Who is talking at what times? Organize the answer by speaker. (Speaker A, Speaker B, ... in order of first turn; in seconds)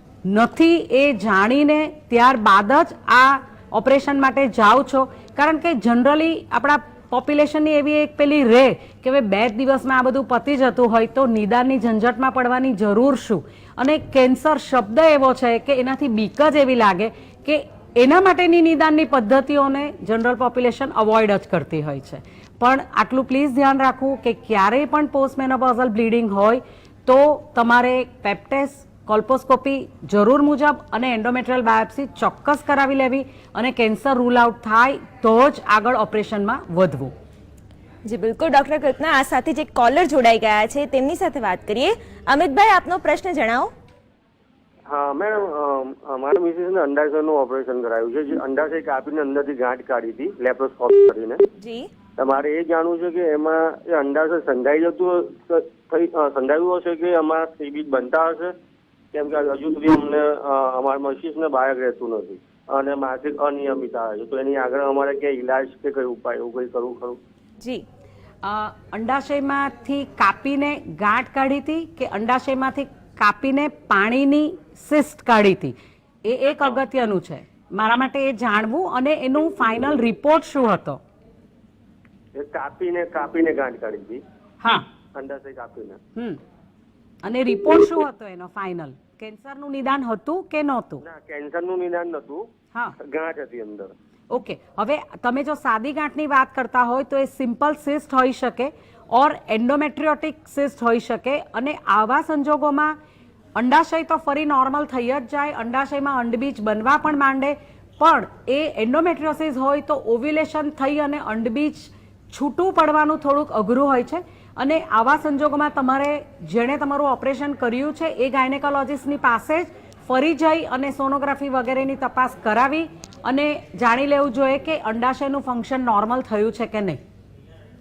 Speaker A: 0.2-37.1, 68.4-81.0, 84.6-84.8, 87.2-91.0, 94.3-103.0, 103.5-127.0
Speaker B: 38.0-43.7, 51.6-51.9
Speaker C: 44.9-51.4, 52.2-58.5, 59.1-67.2, 82.3-84.2, 85.1-86.0, 91.0-92.5, 93.0-93.9